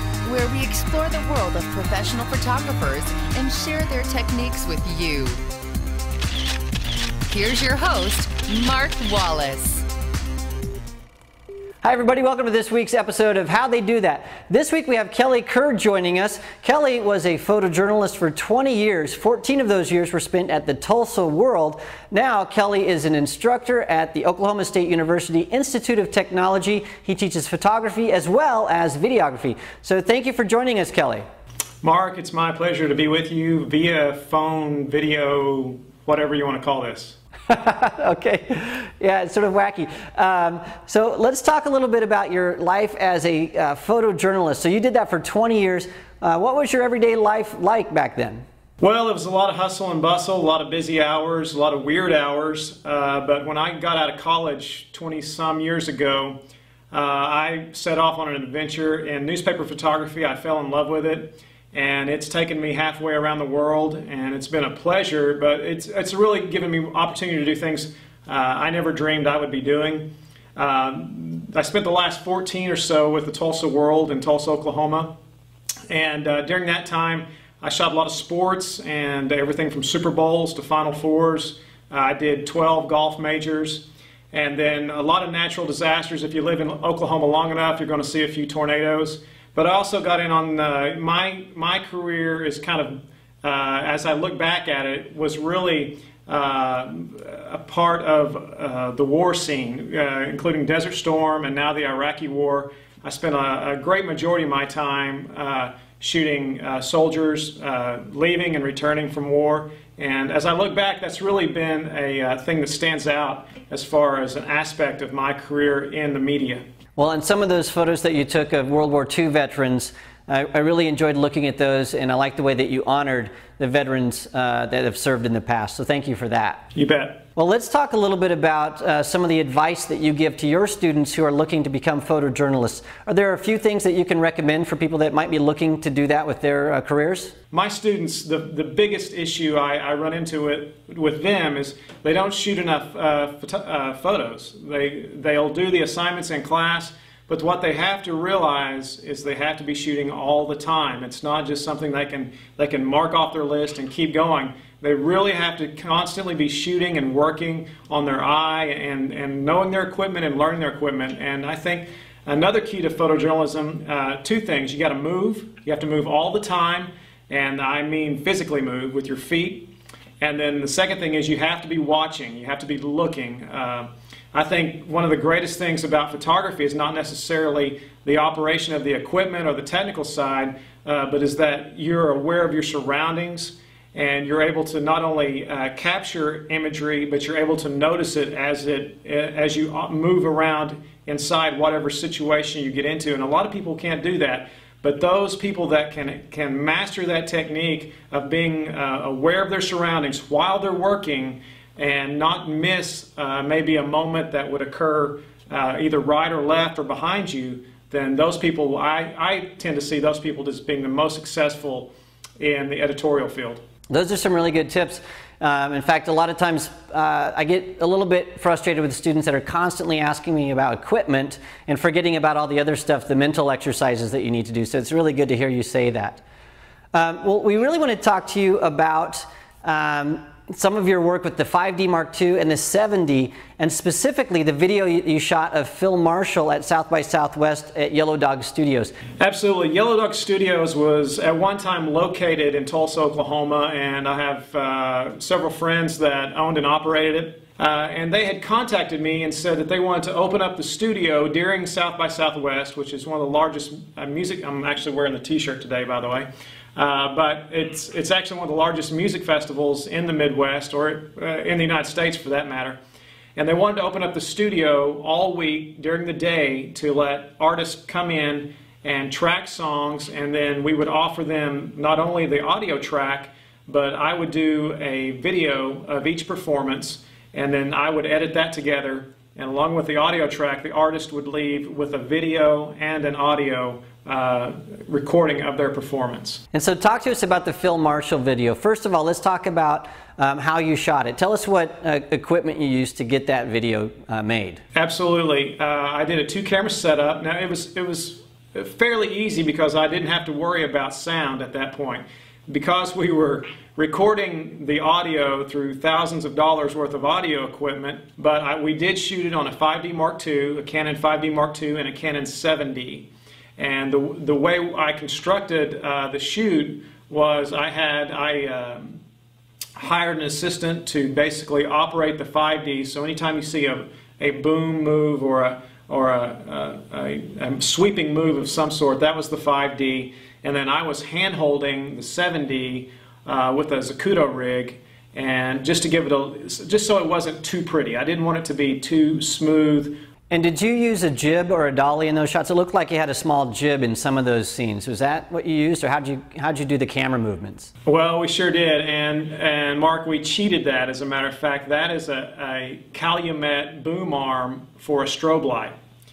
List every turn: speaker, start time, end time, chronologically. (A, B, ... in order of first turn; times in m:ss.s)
0:00.2-0:05.4 A
0:07.3-0:09.8 A
0:11.8-0:31.2 B
0:31.8-0:37.2 C
0:37.5-0:48.4 B
0:48.8-0:56.4 C
0:56.9-1:15.1 C
1:15.9-1:56.6 C
1:57.0-2:06.6 B
2:06.7-2:07.2 C
2:07.4-2:17.3 B
2:17.5-2:49.7 C
2:50.2-3:33.6 C
3:33.9-3:46.2 B
3:46.9-3:58.9 B
3:59.2-4:22.8 C
4:23.4-4:46.4 C
4:46.5-4:54.6 B
4:54.7-5:19.0 C
5:19.8-5:39.9 C
5:40.3-5:47.7 B
5:47.8-5:55.7 C